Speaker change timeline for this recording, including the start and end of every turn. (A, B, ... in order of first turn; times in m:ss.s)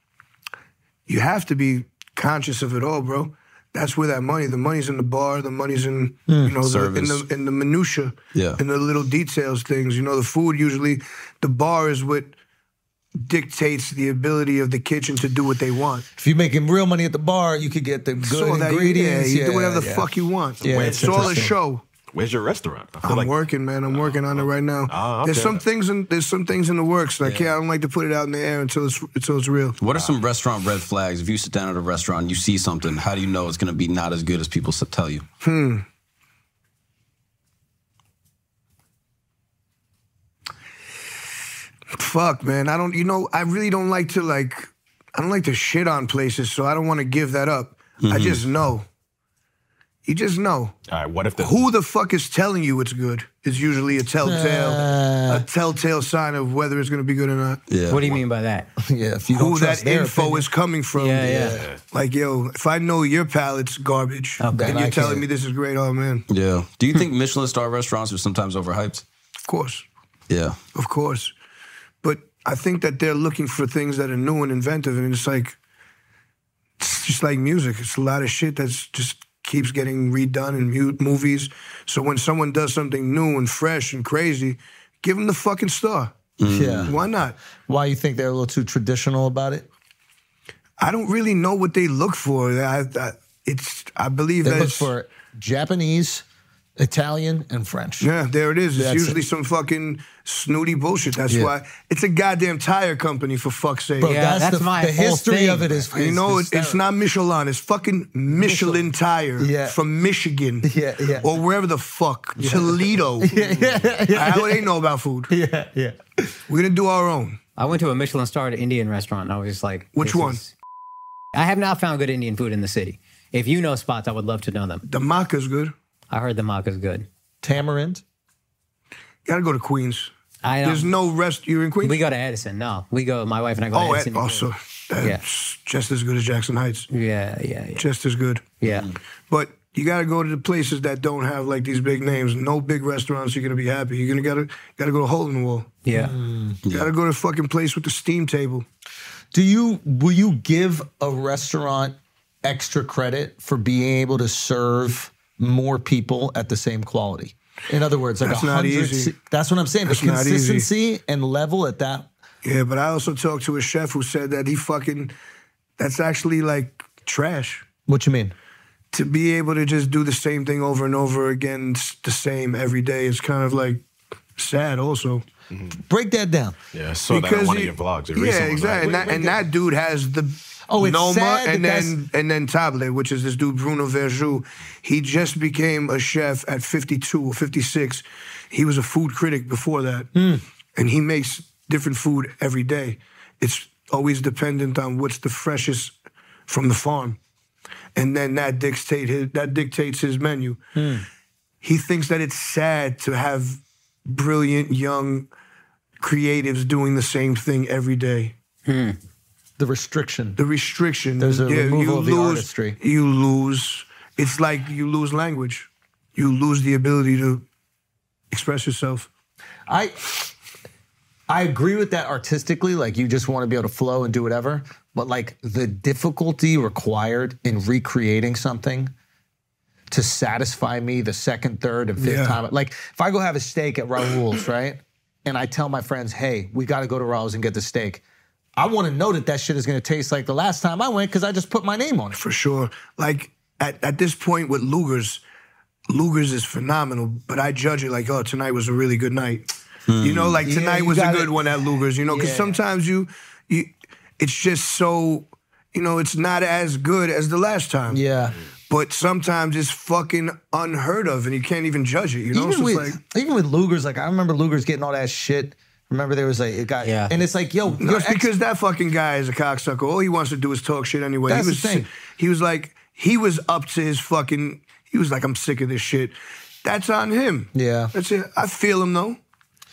0:01.1-0:12.3 A
0:06.3-0:06.6 B
0:06.6-0:07.2 C
0:08.3-0:08.6 C
0:13.2-0:16.0 A
0:16.2-0:21.5 B
0:18.2-0:21.8 A
0:20.6-0:21.5 D
0:22.1-0:25.6 D
0:23.0-0:29.8 A
0:27.2-0:27.5 C
0:29.8-0:35.2 C
0:35.4-0:35.8 A
0:41.9-0:48.8 A
0:48.0-0:48.4 C
0:50.0-0:50.7 A
0:50.9-0:51.7 D
0:51.4-0:57.6 A
0:54.2-0:55.4 B
0:57.7-0:58.2 C
0:57.9-0:58.7 E
0:58.8-1:00.5 B
0:59.3-1:06.2 A
1:00.9-1:01.6 E
1:01.2-1:01.7 B
1:01.4-1:01.8 D
1:04.4-1:04.8 E
1:04.5-1:05.2 B
1:06.3-1:09.0 C
1:09.5-1:09.8 A
1:10.3-1:10.6 C
1:10.7-1:11.3 A
1:12.0-1:15.6 A
1:16.8-1:26.1 A
1:26.4-1:27.0 C
1:26.4-1:26.9 B
1:26.8-1:27.4 A
1:27.7-1:29.7 B
1:30.8-1:34.9 A
1:34.4-1:36.2 B
1:36.8-1:38.1 B
1:38.0-1:44.2 A
1:38.7-1:39.2 B
1:41.3-1:41.5 B
1:44.0-1:46.8 B
1:44.0-1:45.8 E
1:45.9-1:50.7 A
1:48.4-1:48.8 B
1:49.4-1:49.8 B
1:50.6-1:51.3 B
1:51.2-1:53.4 A
1:52.4-1:54.7 B
1:54.1-1:55.3 A
1:55.3-1:56.3 B
1:56.5-1:57.4 A
1:57.6-2:00.5 E
2:00.0-2:00.4 A
2:01.3-2:04.8 E
2:04.8-2:05.7 A
2:06.1-2:07.1 E
2:07.4-2:08.0 B
2:09.2-2:10.1 A
2:10.4-2:10.9 E
2:10.6-2:12.0 A
2:11.8-2:14.5 E
2:13.7-2:16.9 A
2:16.9-2:17.8 E
2:17.8-2:18.4 A
2:18.6-2:18.9 E
2:18.6-2:18.9 C
2:19.3-2:25.7 A
2:25.8-2:26.1 E
2:25.9-2:26.6 B
2:26.6-2:26.9 C
2:26.7-2:28.6 A
2:29.3-2:42.1 B
2:38.2-2:39.1 A
2:39.8-2:40.7 A
2:42.4-2:45.1 A
2:45.8-2:47.6 A
2:47.9-2:48.3 B
2:48.9-2:53.8 A
2:54.4-2:55.2 A
2:55.5-2:55.8 D
2:55.8-2:56.6 B
2:56.7-2:59.4 D
2:57.1-3:10.1 A
3:00.7-3:02.0 B
3:10.1-3:10.4 B
3:10.7-3:15.9 A
3:16.5-3:17.2 A
3:18.0-3:20.6 A
3:20.7-3:21.0 B
3:21.6-3:25.3 A
3:26.0-3:28.3 A
3:28.6-3:29.0 E
3:29.6-3:30.4 B
3:30.4-3:37.4 A
3:31.2-3:32.8 B
3:38.3-3:39.1 A
3:39.7-3:40.3 B
3:41.3-3:48.9 B
3:49.9-3:58.0 B
3:52.0-3:52.4 A
3:58.6-4:02.2 B
4:02.1-4:05.2 A
4:05.9-4:09.5 A
4:09.9-4:10.4 C
4:10.0-4:18.0 A
4:10.4-4:11.4 B
4:12.0-4:12.6 B
4:17.9-4:18.4 B
4:18.7-4:23.0 A
4:22.3-4:28.3 B
4:26.8-4:27.1 E
4:27.8-4:39.2 A
4:31.3-4:31.9 B
4:37.5-4:37.9 B